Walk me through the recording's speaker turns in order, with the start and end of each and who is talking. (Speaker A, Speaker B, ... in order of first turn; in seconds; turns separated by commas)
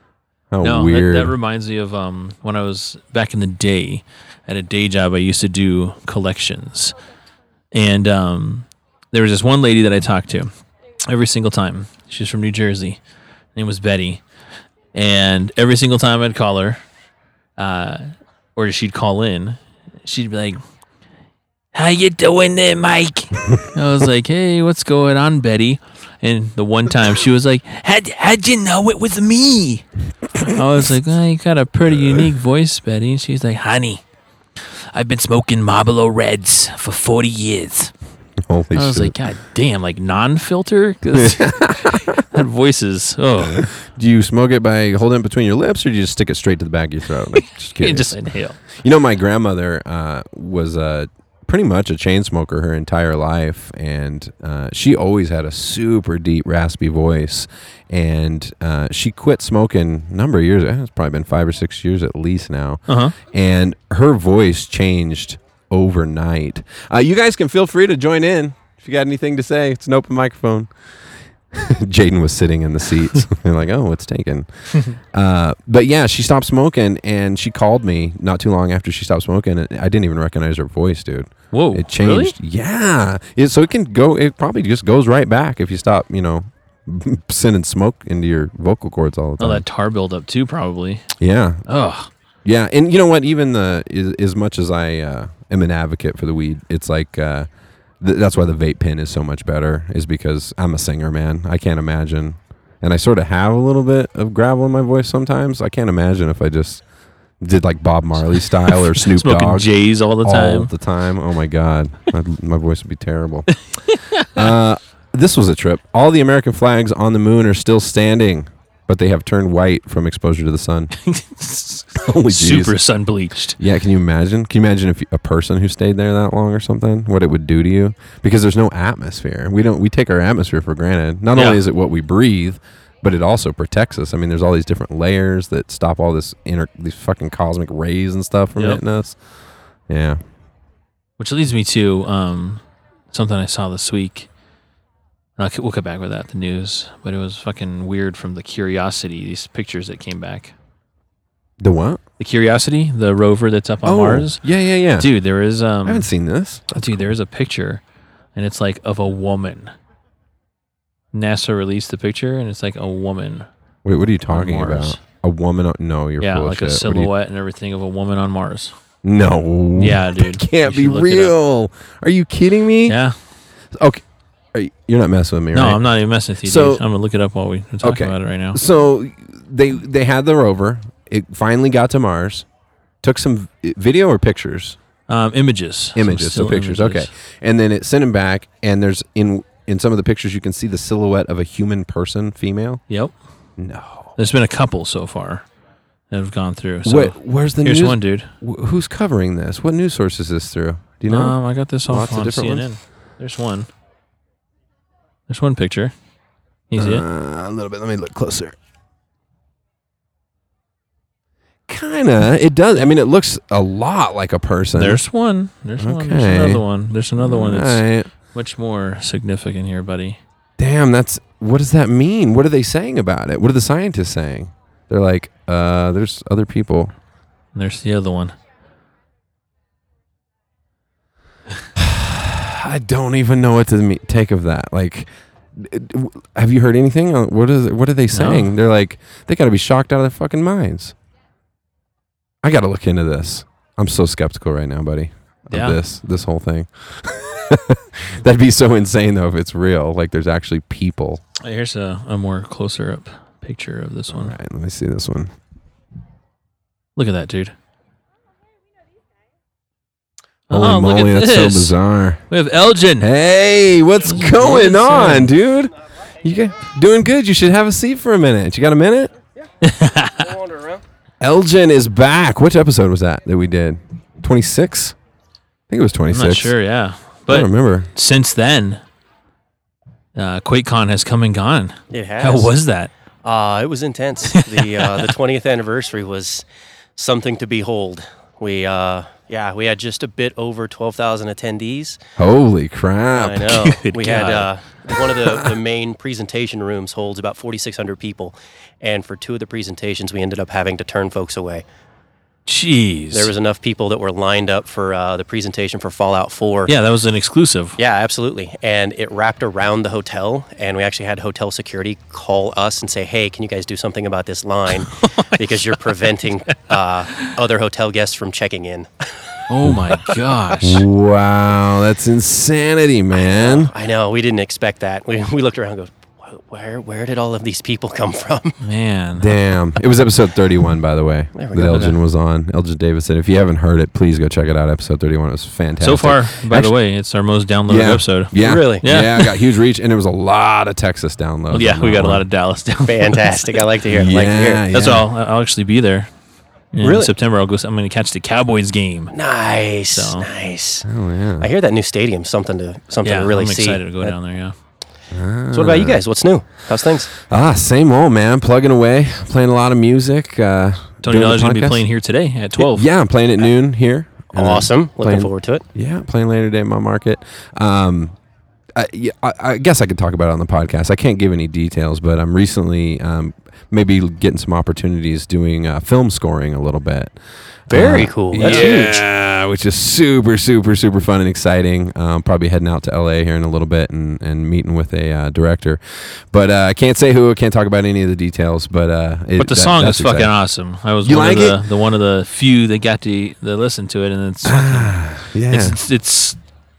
Speaker A: 0.5-1.3, Speaker B: 0.6-7.0, Speaker B: 7.7-10.5, Speaker B: 11.1-13.0, Speaker B: 13.6-14.2, Speaker B: 14.9-16.8, Speaker B: 17.6-20.6, Speaker B: 21.7-29.9, Speaker B: 30.4-34.0, Speaker A: 32.0-32.2, Speaker B: 34.9-37.9, Speaker A: 38.4-39.2, Speaker B: 38.7-43.7, Speaker A: 41.1-42.2, Speaker A: 43.5-48.2, Speaker B: 47.8-48.6, Speaker A: 48.8-70.7, Speaker B: 62.9-63.2, Speaker A: 71.5-89.7, Speaker B: 81.5-82.3, Speaker B: 89.4-91.0, Speaker A: 91.2-91.6, Speaker B: 91.7-92.1, Speaker A: 92.5-97.5, Speaker A: 98.0-106.8, Speaker A: 107.4-113.5, Speaker B: 108.7-110.7, Speaker B: 113.9-114.4, Speaker A: 114.3-120.9, Speaker B: 121.0-123.6, Speaker A: 122.0-122.8, Speaker A: 123.6-139.2, Speaker B: 131.3-131.6, Speaker B: 138.6-138.8, Speaker A: 139.9-140.2, Speaker B: 141.2-144.3, Speaker B: 145.4-150.5, Speaker A: 151.6-152.0, Speaker B: 152.2-154.4, Speaker A: 153.8-155.1, Speaker B: 155.0-156.1, Speaker A: 155.8-157.1, Speaker B: 156.7-157.8, Speaker B: 158.3-159.7, Speaker B: 161.1-163.5, Speaker A: 163.8-167.1, Speaker B: 164.3-165.0, Speaker B: 166.2-168.7, Speaker A: 169.0-173.0, Speaker B: 169.8-171.4, Speaker B: 172.9-173.2, Speaker A: 173.7-174.0, Speaker A: 174.5-175.8, Speaker B: 175.5-178.6, Speaker A: 176.4-176.8, Speaker A: 177.8-182.5, Speaker A: 183.0-184.8, Speaker B: 185.1-187.1, Speaker A: 186.0-192.8, Speaker B: 192.9-193.2, Speaker A: 193.6-194.1, Speaker B: 194.2-195.4, Speaker B: 196.1-198.3, Speaker A: 196.8-202.7, Speaker B: 201.1-203.7, Speaker B: 205.3-205.9, Speaker B: 206.7-207.1, Speaker A: 206.8-208.6, Speaker A: 211.7-215.0, Speaker B: 214.8-220.2, Speaker A: 215.8-216.6, Speaker A: 217.2-218.1, Speaker A: 220.6-226.9, Speaker B: 227.6-228.3, Speaker A: 231.8-240.9, Speaker B: 238.1-238.5, Speaker A: 242.4-251.2, Speaker B: 245.5-245.8, Speaker B: 251.4-254.3, Speaker A: 254.1-255.3, Speaker B: 257.0-257.6, Speaker B: 260.5-261.8, Speaker A: 260.5-262.2, Speaker B: 262.3-263.1, Speaker A: 263.0-269.1, Speaker B: 264.1-265.3, Speaker B: 269.6-270.4, Speaker C: 270.5-270.8, Speaker A: 271.2-275.0, Speaker A: 275.7-276.6, Speaker B: 276.1-278.8, Speaker A: 277.3-277.9, Speaker B: 280.2-282.9, Speaker C: 281.9-282.5, Speaker C: 283.2-292.0, Speaker B: 284.3-285.1, Speaker A: 292.2-293.6, Speaker C: 293.1-301.6, Speaker B: 293.6-294.5, Speaker B: 302.5-303.3, Speaker C: 303.1-306.7, Speaker B: 306.7-307.8, Speaker C: 307.8-318.9, Speaker B: 314.8-315.7, Speaker B: 319.5-320.9, Speaker A: 319.6-319.9, Speaker A: 320.6-323.7, Speaker C: 323.1-328.6, Speaker B: 328.6-329.3, Speaker A: 329.2-336.7, Speaker C: 331.3-331.9, Speaker B: 331.7-332.0, Speaker B: 335.8-339.3, Speaker A: 337.7-342.2, Speaker C: 338.4-338.8, Speaker B: 341.5-343.6, Speaker C: 342.8-344.6, Speaker A: 343.9-345.1, Speaker B: 344.7-346.1, Speaker B: 346.7-349.1, Speaker C: 346.8-347.1, Speaker C: 349.1-350.9, Speaker B: 349.9-350.3, Speaker A: 350.9-351.5, Speaker C: 351.4-353.9, Speaker B: 353.0-354.6, Speaker A: 355.1-356.0, Speaker C: 355.5-357.1, Speaker A: 357.2-361.8, Speaker B: 361.0-362.9, Speaker A: 362.6-368.1, Speaker C: 364.3-365.6, Speaker A: 368.8-377.1, Speaker A: 377.7-390.4, Speaker C: 377.7-379.0, Speaker B: 378.4-378.7, Speaker B: 389.4-395.0, Speaker A: 391.0-391.6, Speaker A: 394.4-395.8, Speaker B: 395.5-396.4